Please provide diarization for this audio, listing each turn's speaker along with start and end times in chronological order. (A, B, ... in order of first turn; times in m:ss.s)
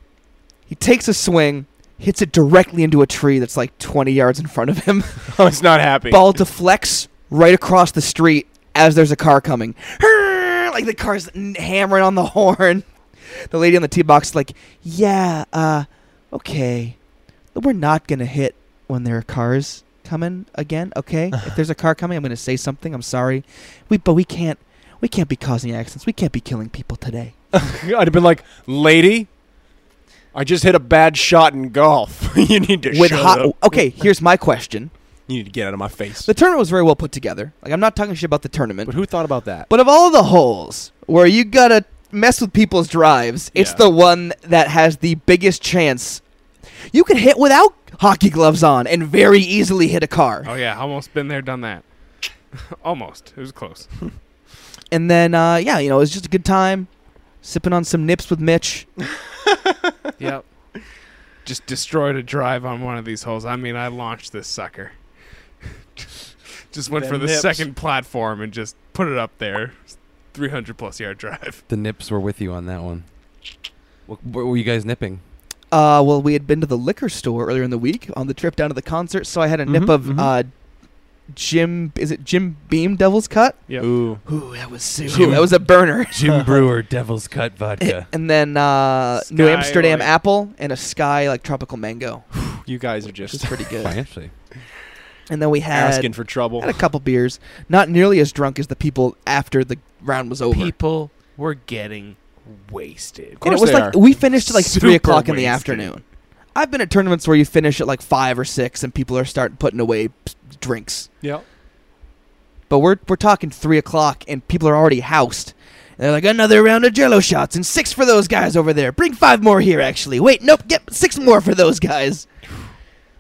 0:00.7-0:05.4 A
0:05.3-0:06.4 B
0:06.1-0:12.9 A
0:13.5-0:17.0 A
0:17.5-0:27.3 A
0:27.5-0:29.3 B
0:30.3-0:33.8 B
0:32.9-0:34.9 A
0:35.3-0:36.3 B
0:36.2-0:39.0 A
0:38.8-0:39.7 B
0:39.7-0:46.2 A
0:43.5-0:43.8 C
0:46.9-0:50.5 A
0:50.4-0:51.8 C
0:52.5-0:53.9 C
0:54.9-0:56.9 A
0:57.4-0:58.9 A
0:59.5-0:59.9 B
1:00.2-1:00.4 C
1:01.4-1:04.9 C
1:06.7-1:11.6 C
1:06.9-1:07.7 B
1:11.7-1:13.0 D
1:14.1-1:15.2 D
1:15.7-1:20.5 A
1:19.7-1:20.3 B
1:21.3-1:23.6 A
1:23.7-1:24.2 B
1:24.2-1:26.5 A
1:25.1-1:25.5 D
1:25.1-1:25.4 B
1:26.1-1:28.1 D
1:27.8-1:32.3 A
1:29.3-1:30.1 C
1:32.4-1:33.6 B
1:33.2-1:34.0 A
1:33.8-1:34.3 D
1:35.3-1:40.7 A
1:35.7-1:36.8 B
1:40.5-1:43.4 C
1:43.4-1:44.0 B
1:43.4-1:46.0 A
1:44.4-1:45.9 C
1:46.6-1:51.1 A
1:52.7-2:02.3 A